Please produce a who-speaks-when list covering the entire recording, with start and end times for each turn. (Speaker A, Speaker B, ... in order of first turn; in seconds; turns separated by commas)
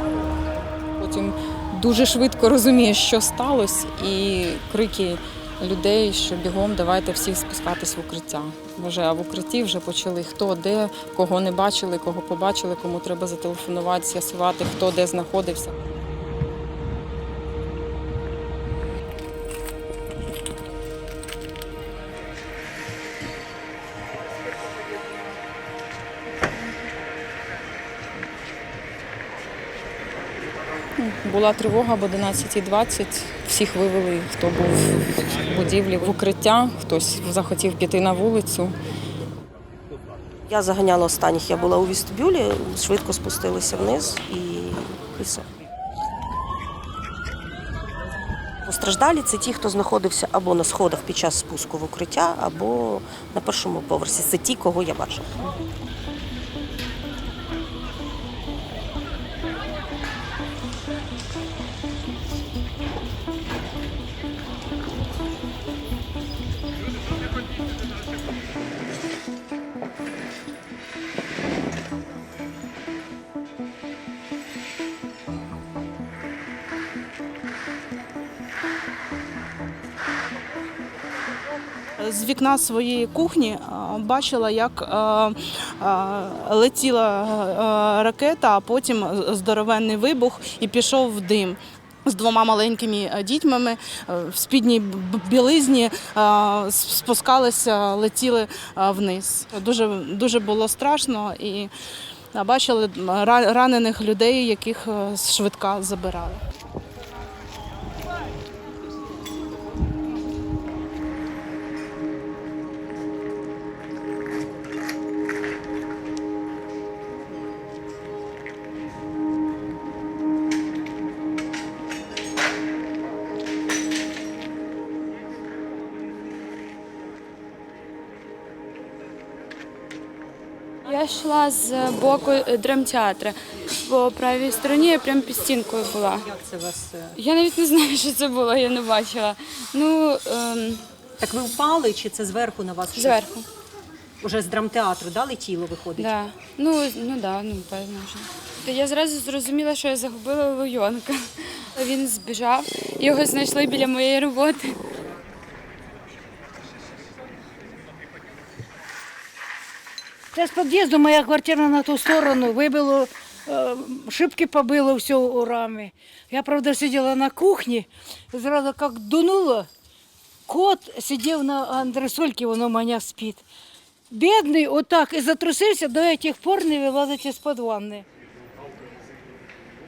Speaker A: 1.0-15.7, Speaker A: 31.0-38.7, Speaker B: 40.5-45.4, Speaker B: 48.6-55.2, Speaker C: 82.0-101.7, Speaker C: 102.3-106.4, Speaker D: 130.8-136.3, Speaker E: 136.3-137.1, Speaker D: 137.1-140.8, Speaker E: 141.2-143.2, Speaker D: 142.9-143.4, Speaker E: 144.2-146.0, Speaker D: 145.9-154.9, Speaker F: 160.3-169.7, Speaker F: 170.5-173.4, Speaker F: 174.1-178.0